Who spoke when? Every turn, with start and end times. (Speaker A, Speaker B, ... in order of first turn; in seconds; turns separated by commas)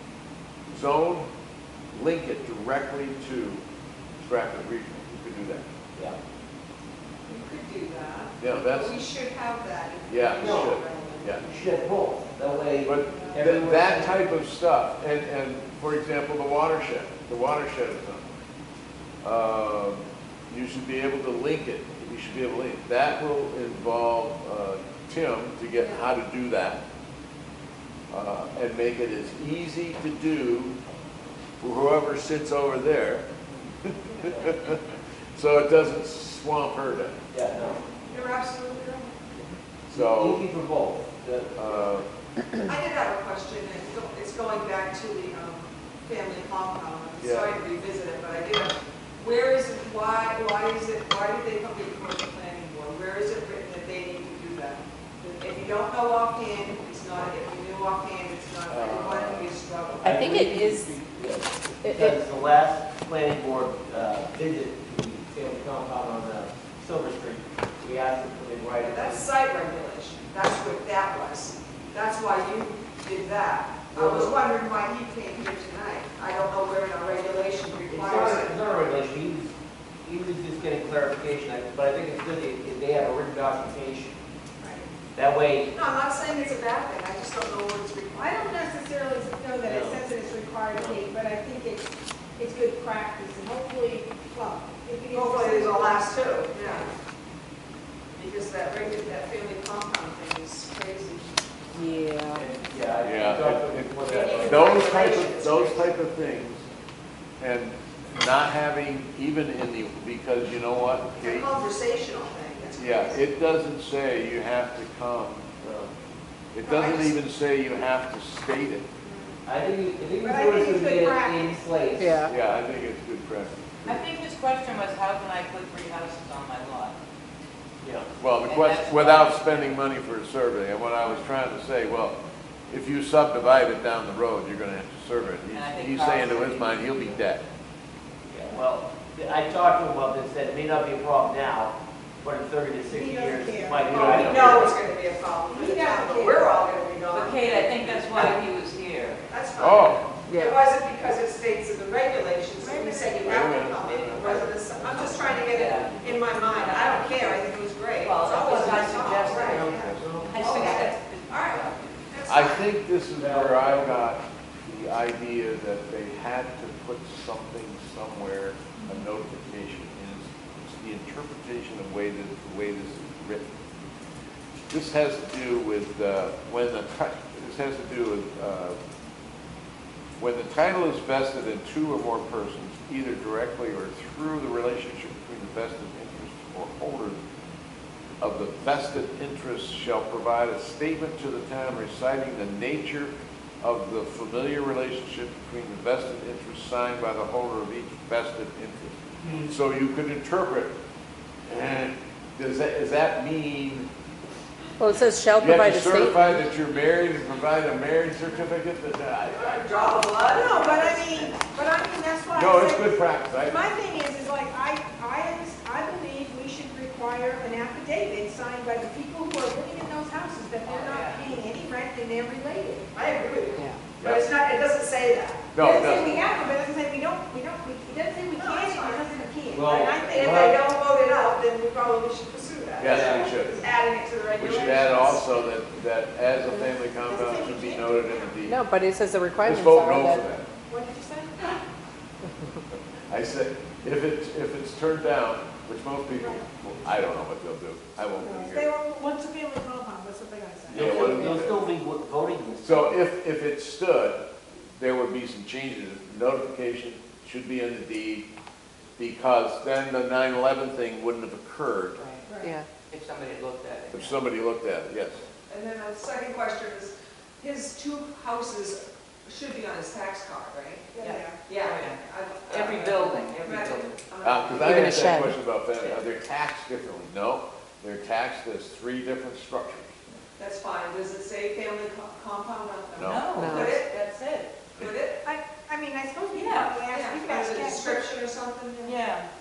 Speaker A: 0.7-1.3, Speaker A: 1.9-3.6, Speaker A: 4.2-5.7, Speaker B: 7.3-11.4, Speaker A: 8.4-9.0, Speaker A: 10.1-11.4, Speaker C: 10.3-10.8, Speaker C: 11.4-14.2, Speaker A: 12.8-18.3, Speaker B: 13.0-13.4, Speaker A: 19.2-26.8, Speaker A: 28.1-30.8, Speaker A: 31.6-33.3, Speaker A: 33.9-34.8, Speaker C: 34.2-34.6, Speaker A: 35.3-37.2, Speaker C: 37.3-38.0, Speaker B: 38.1-39.2, Speaker A: 39.9-40.4, Speaker C: 39.9-41.9, Speaker A: 41.6-42.1, Speaker B: 42.6-60.2, Speaker A: 47.2-47.6, Speaker A: 58.7-59.5, Speaker C: 60.0-69.2, Speaker D: 60.0-60.9, Speaker D: 61.8-62.2, Speaker B: 68.8-78.6, Speaker C: 73.9-74.4, Speaker C: 77.9-84.2, Speaker E: 84.6-84.9, Speaker C: 85.1-85.7, Speaker B: 85.7-88.5, Speaker E: 88.1-96.9, Speaker C: 89.6-90.0, Speaker C: 90.7-91.0, Speaker B: 95.1-96.9, Speaker B: 98.2-101.3, Speaker D: 101.7-102.4, Speaker C: 102.3-104.9, Speaker A: 103.0-106.7, Speaker B: 104.1-105.9, Speaker A: 107.4-111.5, Speaker B: 111.2-113.2, Speaker A: 112.8-115.6, Speaker C: 115.6-115.9, Speaker A: 116.5-118.8, Speaker B: 116.6-117.1, Speaker C: 119.5-122.2, Speaker E: 120.2-121.6, Speaker D: 122.0-122.3, Speaker A: 122.2-124.0, Speaker F: 123.8-127.0, Speaker C: 127.8-128.1, Speaker A: 128.2-132.2, Speaker F: 128.4-129.8, Speaker A: 132.7-137.4, Speaker F: 135.5-137.0, Speaker C: 138.3-144.7, Speaker E: 142.9-144.7, Speaker A: 143.8-144.4, Speaker B: 143.8-148.4, Speaker E: 145.5-146.7, Speaker F: 147.1-149.3, Speaker B: 149.3-162.7, Speaker A: 149.6-150.0, Speaker D: 150.2-150.6, Speaker E: 152.6-153.6, Speaker A: 153.2-154.5, Speaker C: 154.1-156.2, Speaker F: 155.5-157.4, Speaker F: 158.0-162.0, Speaker A: 158.8-160.4, Speaker C: 159.8-160.4, Speaker A: 162.3-173.5, Speaker C: 163.1-164.1, Speaker E: 168.8-169.0, Speaker A: 174.7-178.8, Speaker A: 180.2-187.2, Speaker A: 188.2-200.7, Speaker C: 199.2-199.5, Speaker A: 201.5-203.9, Speaker D: 204.8-206.4, Speaker A: 205.4-209.7, Speaker B: 209.3-211.3, Speaker E: 210.1-222.9, Speaker A: 212.3-213.7, Speaker F: 220.6-221.3, Speaker B: 222.9-225.5, Speaker A: 224.0-224.3, Speaker A: 225.5-226.3, Speaker E: 225.6-230.6, Speaker B: 228.4-229.1, Speaker C: 229.5-230.6, Speaker B: 230.0-235.4, Speaker A: 232.8-233.6, Speaker C: 232.8-233.3, Speaker A: 234.4-238.6, Speaker E: 236.9-238.3, Speaker D: 238.4-240.2, Speaker A: 239.4-240.5, Speaker E: 240.7-241.6, Speaker A: 243.1-248.7, Speaker E: 246.1-246.4, Speaker E: 248.2-251.0, Speaker A: 250.7-251.7, Speaker C: 250.7-253.1, Speaker D: 251.0-251.4, Speaker A: 252.6-258.2, Speaker A: 259.0-262.0, Speaker F: 261.9-262.3, Speaker E: 262.3-262.6, Speaker F: 262.9-264.2, Speaker A: 263.9-265.2, Speaker B: 265.5-275.1, Speaker E: 270.9-271.4, Speaker F: 271.0-274.0, Speaker A: 274.2-280.0, Speaker D: 274.6-275.4, Speaker F: 275.7-276.0, Speaker B: 280.4-283.9, Speaker A: 282.9-283.4, Speaker F: 283.0-284.5, Speaker D: 283.4-283.8, Speaker B: 284.8-285.2, Speaker E: 285.2-288.1, Speaker F: 286.3-286.8, Speaker B: 286.8-289.0, Speaker F: 288.8-289.3